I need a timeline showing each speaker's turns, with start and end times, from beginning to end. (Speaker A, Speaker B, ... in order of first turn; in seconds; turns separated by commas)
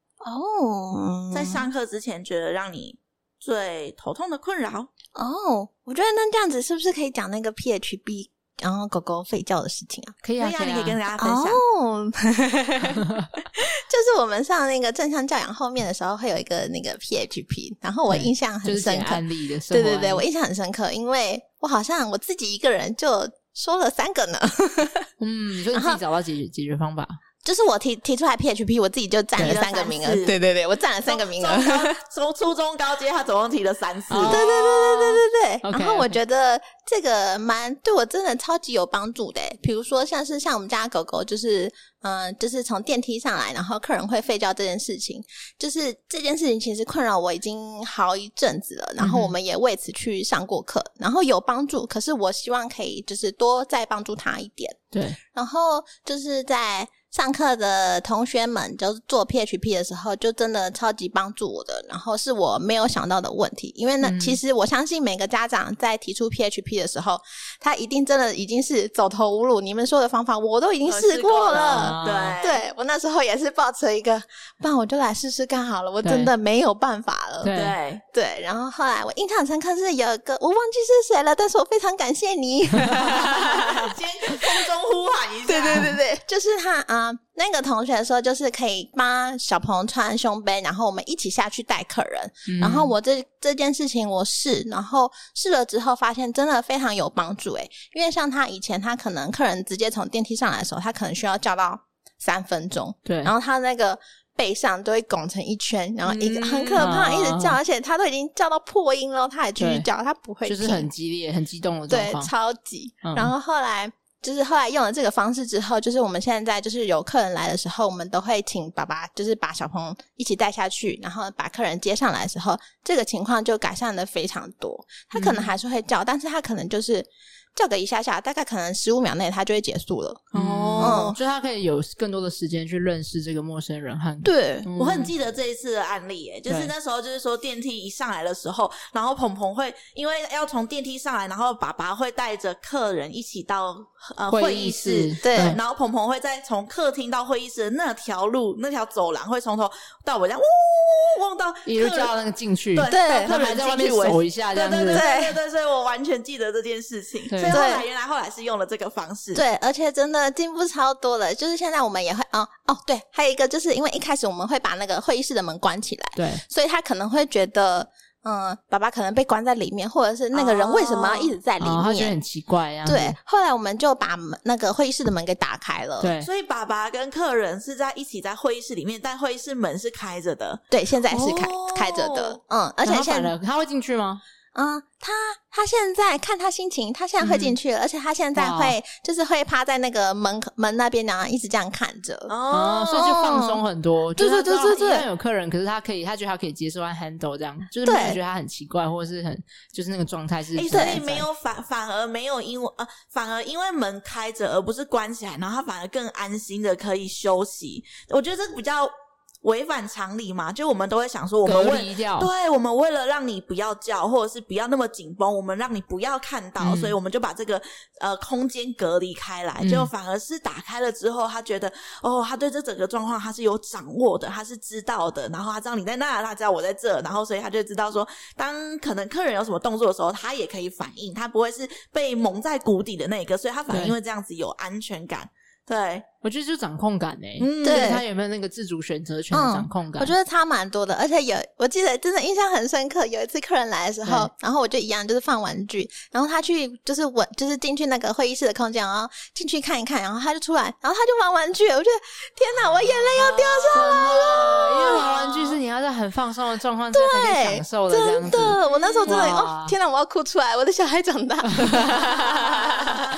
Speaker A: 0.2-1.6, Speaker B: 1.3-4.9, Speaker A: 5.1-10.2, Speaker C: 10.2-11.0, Speaker B: 10.4-11.6, Speaker A: 11.2-25.1, Speaker C: 13.0-13.3, Speaker C: 18.1-20.2, Speaker C: 25.2-27.2, Speaker A: 25.7-26.0, Speaker A: 27.4-32.0, Speaker B: 29.4-30.3, Speaker B: 31.0-34.4, Speaker C: 34.1-36.1, Speaker A: 34.3-54.8, Speaker C: 49.0-49.3, Speaker C: 54.9-55.2, Speaker A: 55.3-77.5, Speaker C: 64.0-64.4, Speaker B: 70.8-72.6, Speaker C: 71.6-72.4, Speaker C: 76.0-76.3, Speaker C: 77.4-77.8, Speaker B: 77.5-78.0, Speaker A: 78.1-84.6, Speaker B: 83.2-85.9, Speaker A: 85.5-110.9, Speaker C: 92.5-92.9, Speaker C: 103.0-103.3, Speaker B: 106.2-106.8, Speaker C: 106.7-107.6, Speaker C: 109.6-109.9, Speaker C: 110.4-112.3, Speaker A: 111.9-131.2, Speaker C: 113.0-113.3, Speaker C: 125.1-125.5, Speaker C: 130.3-135.1, Speaker B: 130.3-131.1, Speaker A: 134.2-134.7, Speaker B: 134.8-152.1, Speaker C: 136.5-136.7, Speaker C: 144.3-145.6, Speaker A: 145.2-145.5, Speaker C: 151.7-155.0, Speaker B: 152.7-159.4, Speaker A: 152.9-153.3, Speaker A: 154.9-155.3, Speaker C: 157.3-157.6, Speaker A: 157.5-157.8, Speaker A: 159.3-172.2, Speaker C: 166.2-166.4, Speaker B: 170.3-171.3, Speaker C: 171.6-173.2, Speaker A: 172.8-176.1, Speaker C: 176.0-176.3, Speaker B: 176.2-182.4, Speaker A: 180.7-183.3, Speaker C: 182.8-184.2, Speaker A: 184.5-192.3, Speaker C: 187.2-187.5, Speaker C: 188.3-188.8, Speaker B: 192.3-193.1, Speaker C: 192.5-201.2, Speaker A: 192.9-193.6, Speaker A: 194.2-195.1, Speaker A: 197.8-198.2, Speaker B: 200.5-208.9, Speaker A: 200.7-201.0, Speaker B: 209.4-236.1, Speaker C: 211.4-212.3, Speaker C: 216.6-217.0, Speaker C: 219.6-219.9, Speaker C: 233.7-233.9, Speaker C: 236.2-240.1, Speaker B: 237.4-238.0, Speaker A: 237.6-238.0, Speaker A: 239.3-255.1, Speaker C: 244.0-244.3, Speaker B: 253.2-255.6, Speaker C: 253.7-259.7, Speaker A: 256.9-263.1, Speaker B: 258.6-259.3, Speaker C: 261.5-262.4